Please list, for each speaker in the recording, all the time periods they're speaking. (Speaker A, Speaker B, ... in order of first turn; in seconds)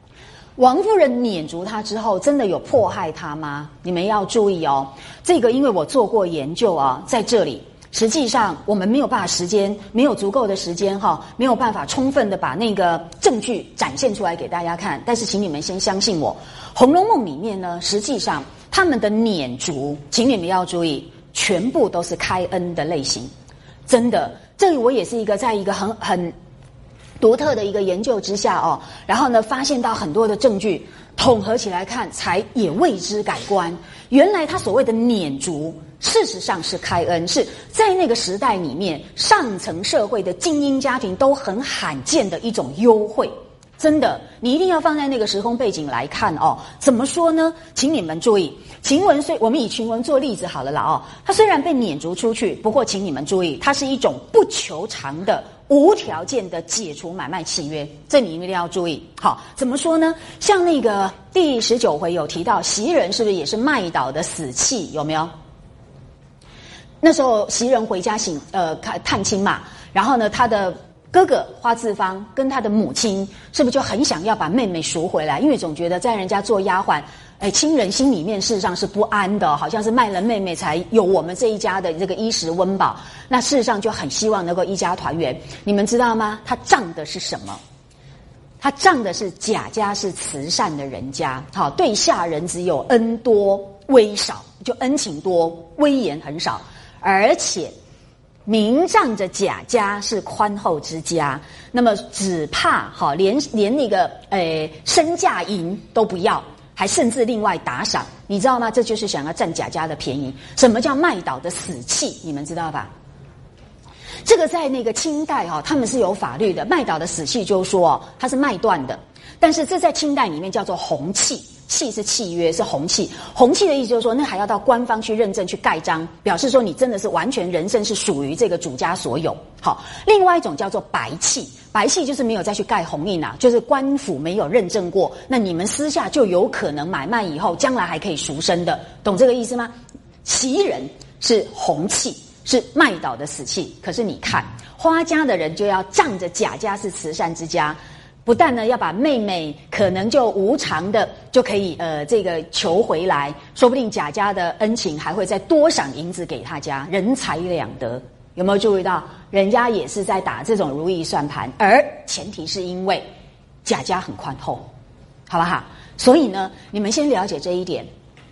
Speaker A: 0.6-23.3, 23.9-26.3, 27.2-65.3, 67.0-87.6, 88.6-97.7, 98.5-112.9, 114.2-139.7, 140.2-163.1, 163.7-164.7, 165.3-167.9